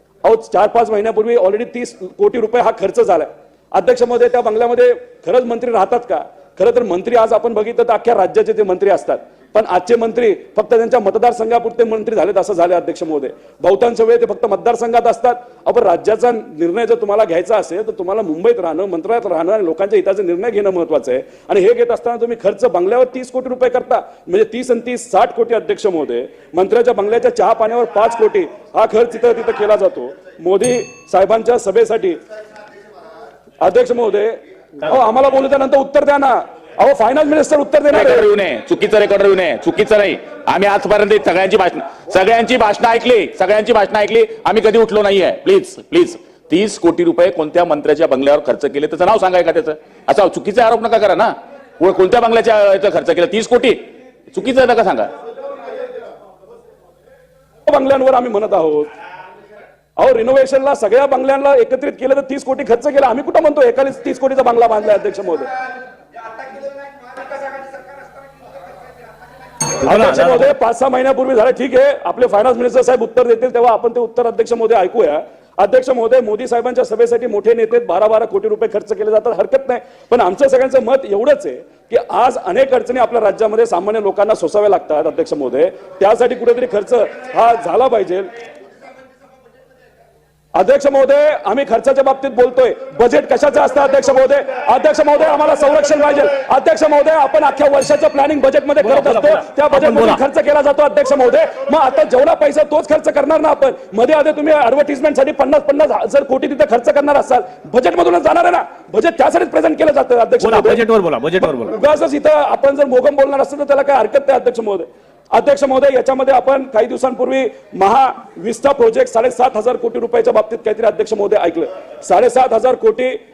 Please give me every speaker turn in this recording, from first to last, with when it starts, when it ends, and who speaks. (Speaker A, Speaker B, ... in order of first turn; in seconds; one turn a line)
Speaker A: 0.2-32.2
Speaker A: 33.6-38.3
Speaker B: 37.9-53.8
Speaker B: 54.3-55.1
Speaker A: 57.7-58.9
Speaker A: 60.0-65.5
Speaker C: 69.8-70.5
Speaker A: 69.8-88.3
Speaker A: 90.5-110.8
Speaker C: 98.8-100.2
Speaker C: 110.4-111.8
Speaker A: 111.5-123.2